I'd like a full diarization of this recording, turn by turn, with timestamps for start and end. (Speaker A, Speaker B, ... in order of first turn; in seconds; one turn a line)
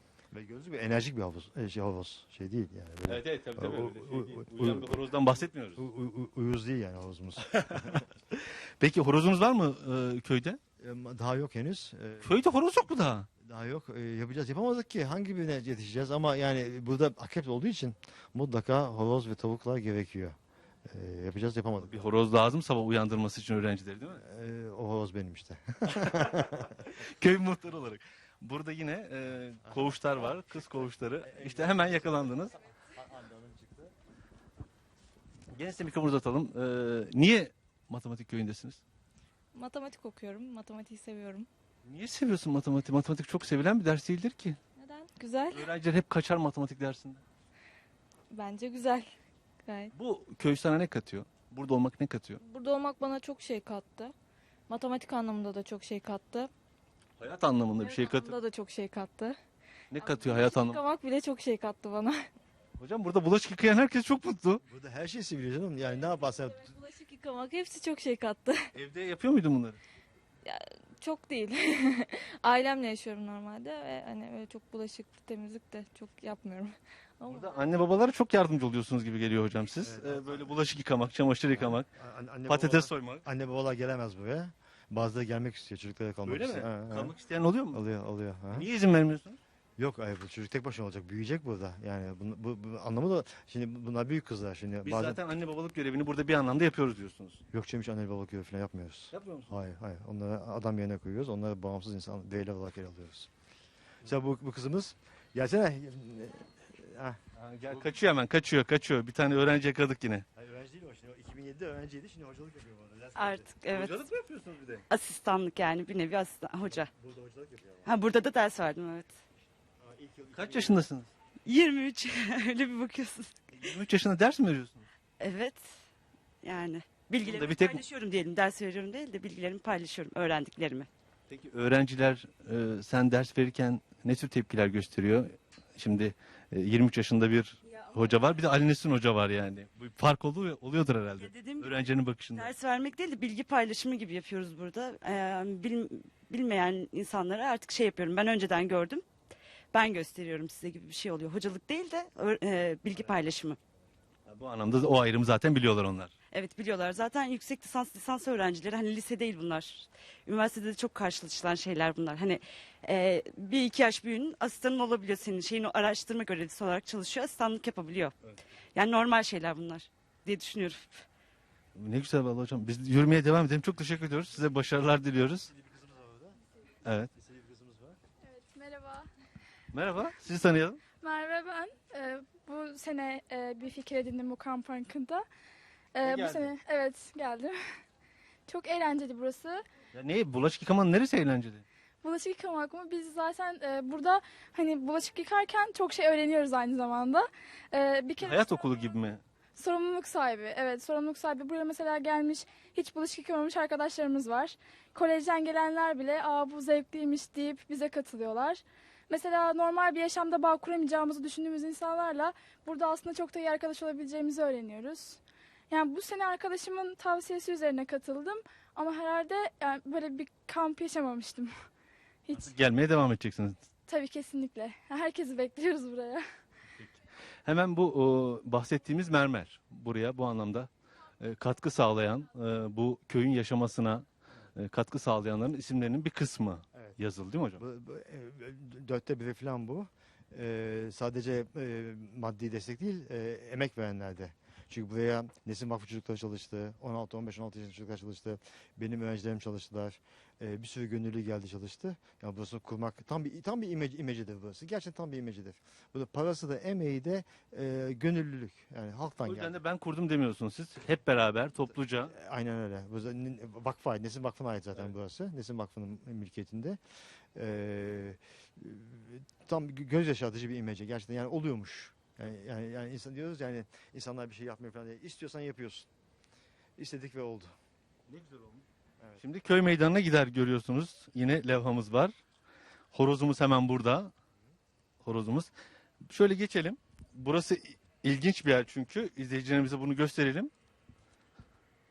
Speaker A: 0.3-5.0
Speaker B: 3.0-5.8
Speaker A: 5.8-8.0
Speaker B: 7.5-10.6
Speaker A: 10.8-12.4
Speaker B: 12.2-13.3
Speaker A: 13.4-22.1
Speaker B: 21.8-24.2
Speaker A: 24.2-26.8
Speaker B: 25.9-32.5
Speaker A: 29.6-33.9
Speaker B: 35.5-38.8
Speaker C: 39.5-41.5
Speaker B: 41.8-44.6
Speaker C: 44.8-45.7
Speaker B: 45.5-47.2
Speaker C: 48.3-49.1
Speaker C: 49.6-49.9
Speaker B: 49.9-52.4
Speaker C: 52.4-54.1
Speaker C: 54.7-56.5
Speaker B: 57.2-58.4
Speaker C: 57.8-59.4
Speaker B: 59.9-60.8
Speaker C: 60.0-62.3
Speaker B: 62.8-64.6
Speaker A: 64.7-66.7
Speaker C: 66.6-68.6
Speaker B: 68.7-69.8
Speaker C: 70.4-77.6
Speaker B: 77.3-81.9
Speaker A: 79.8-80.5
Speaker A: 81.5-87.1
Speaker B: 82.5-83.2
Speaker B: 86.2-87.8
Speaker A: 87.7-88.7
Speaker B: 88.5-89.4
Speaker A: 89.8-95.2
Speaker B: 94.8-97.4
Speaker A: 97.5-103.3
Speaker B: 99.1-99.5
Speaker A: 104.0-107.9
Speaker B: 107.3-110.2
Speaker A: 110.3-113.5
Speaker D: 113.2-114.0
Speaker B: 113.7-114.8
Speaker D: 114.9-116.9
Speaker A: 116.7-117.9
Speaker D: 117.8-119.1
Speaker A: 119.8-120.8
Speaker B: 120.3-121.1
Speaker D: 121.4-123.6
Speaker B: 123.5-124.9
Speaker D: 125.2-125.7
Speaker D: 126.4-130.9
Speaker B: 127.2-127.8
Speaker B: 131.3-142.5
Speaker D: 141.1-141.8
Speaker D: 142.3-149.1
Speaker D: 149.7-153.6
Speaker B: 154.2-156.1
Speaker D: 156.3-168.1
Speaker D: 168.7-171.1
Speaker B: 171.7-175.5
Speaker A: 175.4-176.4
Speaker B: 176.8-177.1
Speaker A: 177.1-178.0
Speaker E: 178.2-179.1
Speaker B: 179.7-180.8
Speaker E: 180.9-185.2
Speaker E: 185.9-187.6
Speaker B: 186.0-186.5
Speaker E: 188.5-189.6
Speaker B: 189.9-191.6
Speaker E: 192.0-198.5
Speaker B: 198.2-199.2
Speaker E: 199.6-221.5
Speaker E: 222.2-222.5
Speaker B: 222.3-223.7
Speaker E: 223.9-226.2
Speaker B: 226.8-230.7
Speaker B: 231.2-237.6
Speaker A: 237.6-259.6
Speaker B: 259.2-262.1
Speaker A: 262.1-266.8
Speaker A: 267.4-275.9
Speaker A: 276.8-277.5
Speaker B: 278.1-278.6
Speaker B: 279.2-282.1
Speaker B: 282.9-284.1
Speaker B: 285.0-285.5
Speaker B: 286.0-290.5